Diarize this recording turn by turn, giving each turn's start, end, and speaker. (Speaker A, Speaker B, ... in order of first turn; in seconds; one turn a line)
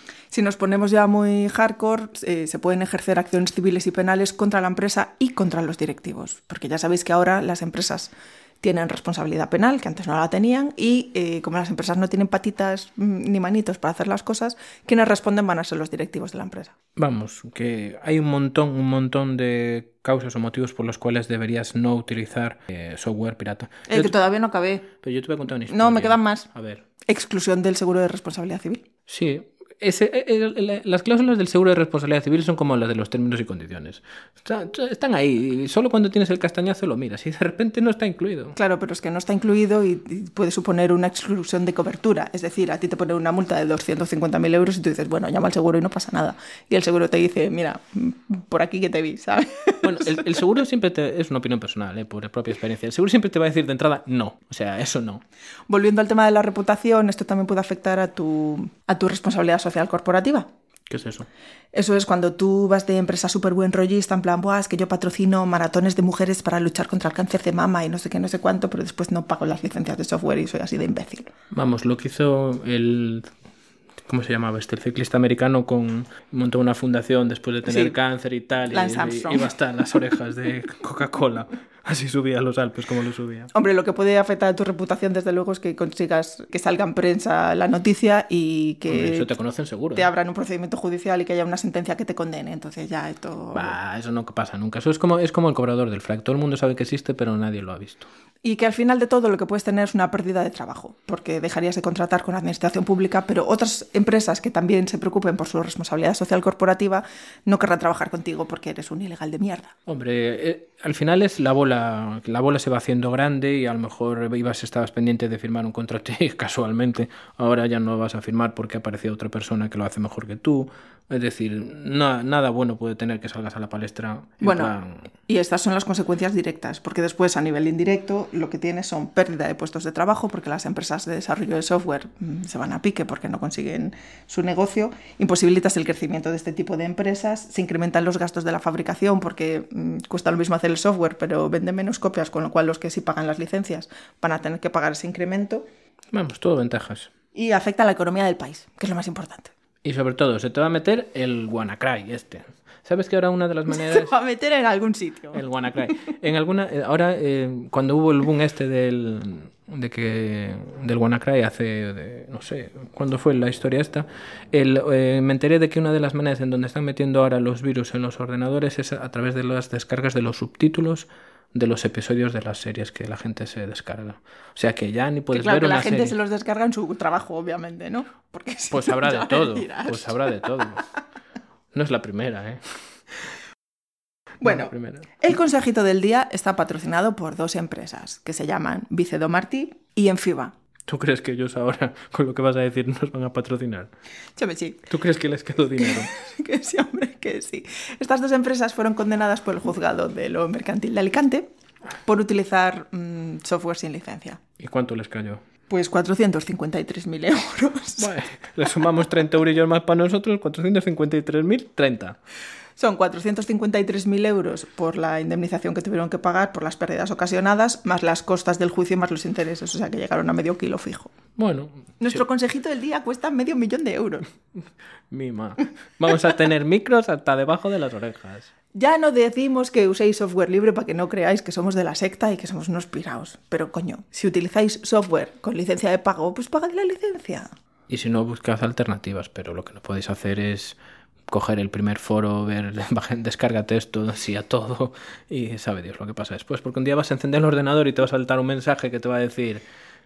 Speaker A: 0.3-16.7
Speaker B: 17.0-24.1
Speaker A: 23.9-24.9
Speaker B: 25.0-26.8
Speaker A: 25.7-26.5
Speaker A: 27.1-28.8
Speaker B: 29.1-38.6
Speaker A: 38.6-50.2
Speaker B: 49.8-55.2
Speaker A: 55.7-60.5
Speaker B: 60.9-61.3
Speaker A: 61.7-71.3
Speaker B: 71.5-73.3
Speaker B: 74.0-83.5
Speaker A: 77.7-78.0
Speaker A: 78.7-79.5
Speaker A: 83.5-89.3
Speaker B: 88.9-90.1
Speaker A: 89.9-93.8
Speaker B: 93.5-98.1
Speaker A: 98.4-109.7
Speaker B: 109.9-125.1
Speaker A: 124.4-124.7
Speaker A: 125.3-145.7
Speaker B: 146.1-147.1
Speaker A: 147.3-149.5
Speaker B: 149.8-154.1
Speaker A: 153.7-155.4
Speaker B: 155.3-176.2
Speaker A: 175.3-180.5
Speaker B: 178.7-180.9
Speaker B: 181.7-182.6
Speaker A: 184.4-190.5
Speaker B: 184.4-185.1
Speaker B: 190.9-193.9
Speaker A: 194.4-194.9
Speaker B: 194.9-196.1
Speaker A: 195.8-201.5
Speaker A: 202.1-204.4
Speaker B: 204.6-205.4
Speaker A: 205.7-208.1
Speaker B: 208.0-212.2
Speaker A: 212.8-221.1
Speaker B: 221.4-222.2
Speaker A: 222.0-224.3
Speaker B: 225.1-228.5
Speaker A: 228.7-237.5
Speaker B: 237.9-240.8
Speaker B: 241.3-249.7